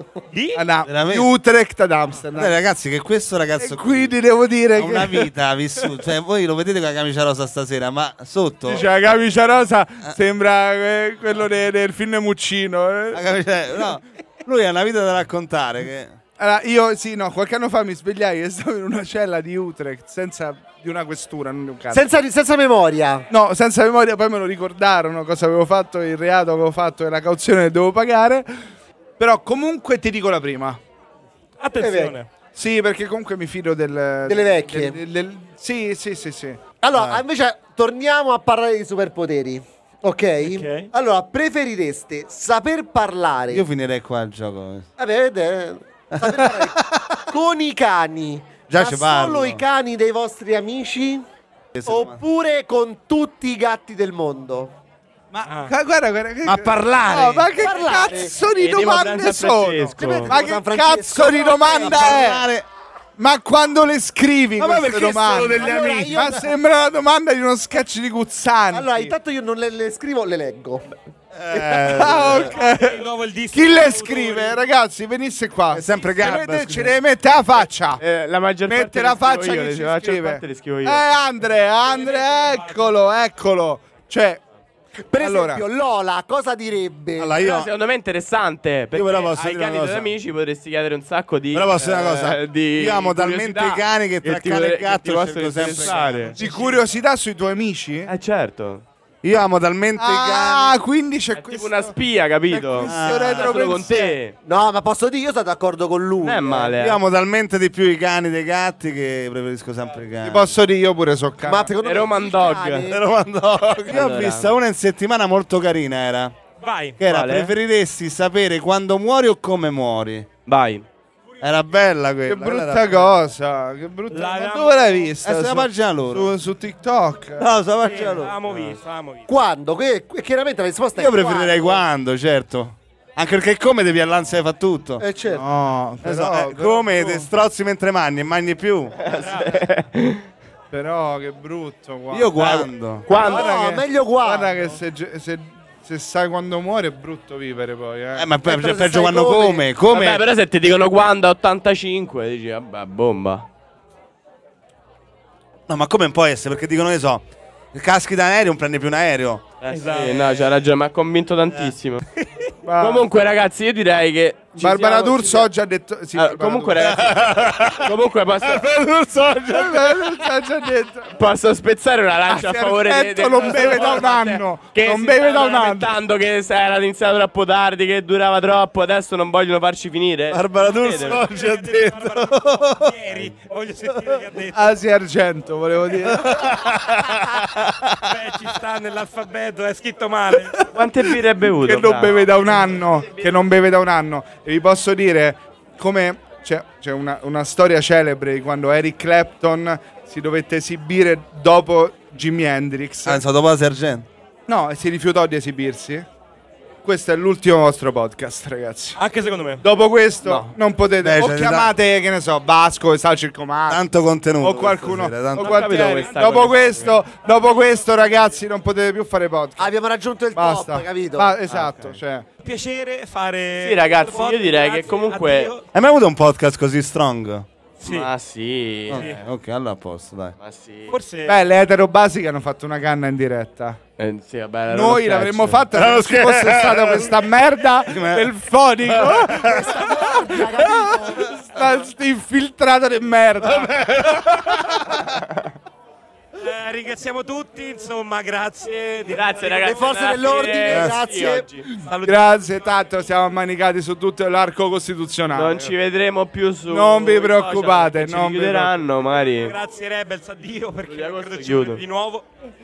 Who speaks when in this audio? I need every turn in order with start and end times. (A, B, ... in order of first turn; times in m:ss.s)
0:00.3-0:00.6 A
0:00.5-0:02.6 B
0:00.9-0:01.3 C
0:02.3-0:04.1 C
0:03.6-0:05.3 B
0:04.8-0:08.9 C
0:08.6-0:13.2 B
0:13.1-0:16.2 C
0:16.4-0:22.0 B
0:21.9-0:23.3 D
0:23.3-0:28.6 B
0:29.2-0:30.8 B
0:31.6-0:32.3 A
0:31.8-0:32.1 D
0:32.5-0:36.6 B
0:34.3-0:35.0 D
0:36.8-0:43.6 D
0:36.9-0:37.2 C
0:40.4-0:40.9 A
0:43.5-0:44.9 C
0:45.0-0:51.2 D
0:46.1-0:47.2 C
0:48.7-0:49.6 C
0:51.7-0:52.2 C
0:51.9-0:54.7 D
0:55.3-1:02.4 B
0:55.5-0:55.7 A
0:56.4-0:57.5 C
0:57.6-0:58.3 D
0:58.5-1:00.4 E
1:00.3-1:02.3 D
1:01.7-1:02.6 C
1:03.2-1:09.1 B
1:04.6-1:06.1 C
1:05.5-1:06.5 D
1:08.7-1:10.9 D
1:11.3-1:12.5 C
1:11.5-1:12.3 D
1:11.8-1:13.0 B
1:12.3-1:14.6 A
1:13.5-1:18.0 B
1:15.7-1:16.9 C
1:18.0-1:21.0 E
1:18.7-1:24.4 B
1:21.8-1:22.9 A
1:25.1-1:27.4 D
1:25.2-1:25.6 B
1:27.2-1:27.7 C
1:27.4-1:36.8 E
1:28.9-1:30.1 C
1:31.5-1:36.3 C
1:35.8-1:36.5 A
1:36.2-1:38.1 B
1:38.0-1:38.8 E
1:39.2-1:40.8 C
1:40.0-1:42.0 B
1:41.3-1:44.4 E
1:42.5-1:44.2 B
1:42.8-1:43.6 C
1:44.4-1:46.7 D
1:46.2-1:47.0 E
1:46.6-1:50.6 C
1:50.2-1:51.7 B
1:51.4-1:53.0 D
1:51.8-1:52.9 E
1:52.9-1:56.3 C
1:53.9-1:54.6 E
1:56.6-1:57.0 A
1:57.0-2:00.3 C
1:57.0-1:57.5 E
2:00.4-2:00.9 E
2:01.4-2:03.1 C
2:02.3-2:07.5 B
2:04.1-2:05.1 A
2:05.2-2:06.3 C
2:07.4-2:08.4 C
2:07.8-2:09.3 A
2:09.3-2:11.8 D
2:11.0-2:15.0 C
2:15.0-2:15.4 D
2:15.3-2:17.3 B
2:16.0-2:19.0 C
2:19.0-2:20.2 E
2:19.0-2:19.6 A
2:20.7-2:22.6 B
2:22.1-2:23.0 C
2:22.4-2:23.6 E
2:23.1-2:28.3 B
2:23.2-2:24.7 D
2:28.2-2:30.2 C
2:28.4-2:29.7 D
2:29.9-2:33.4 E
2:35.7-2:39.4 C
2:39.6-2:42.0 E
2:39.7-2:40.4 A
2:42.6-2:43.1 B
2:42.8-2:45.5 E
2:44.6-2:47.0 B
2:46.1-2:48.7 E
2:46.8-2:50.0 C
2:49.5-2:51.1 B
2:51.1-3:01.2 E
2:52.3-2:55.9 B
3:00.3-3:03.3 C
3:01.0-3:04.7 A
3:04.5-3:06.5 B
3:06.0-3:08.1 C
3:08.0-3:10.7 A
3:10.7-3:12.6 E
3:11.0-3:23.2 B
3:23.0-3:24.1 C
3:24.5-3:26.1 B
3:26.8-3:29.0 B
3:29.0-3:29.6 A
3:29.6-3:33.8 B
3:30.2-3:30.6 E
3:31.0-3:31.7 C
3:33.7-3:35.5 C
3:34.4-3:39.7 B
3:35.4-3:37.0 E
3:35.4-3:36.9 A
3:39.6-3:41.3 D
3:40.3-3:42.3 B
3:41.4-3:42.0 E
3:42.4-3:45.6 A
3:43.6-3:45.5 E
3:45.7-3:47.5 C
3:47.8-3:48.1 A
3:47.8-3:49.2 E
3:48.9-3:49.2 A
3:48.9-3:50.3 C
3:50.4-3:51.0 E
3:50.9-3:51.4 A
3:51.3-3:53.8 B
3:54.0-3:55.7 E
3:54.7-4:05.0 B
3:55.7-3:57.2 C
3:57.9-3:58.3 C
3:58.8-3:59.8 C
3:59.4-4:01.6 D
4:03.4-4:05.1 C
4:06.4-4:10.6 A
4:09.1-4:11.7 E
4:09.7-4:11.5 D
4:10.7-4:11.0 C
4:11.8-4:12.3 A
4:12.0-4:15.7 B
4:15.3-4:19.6 E
4:16.7-4:18.8 B
4:19.4-4:22.3 A
4:20.9-4:21.8 E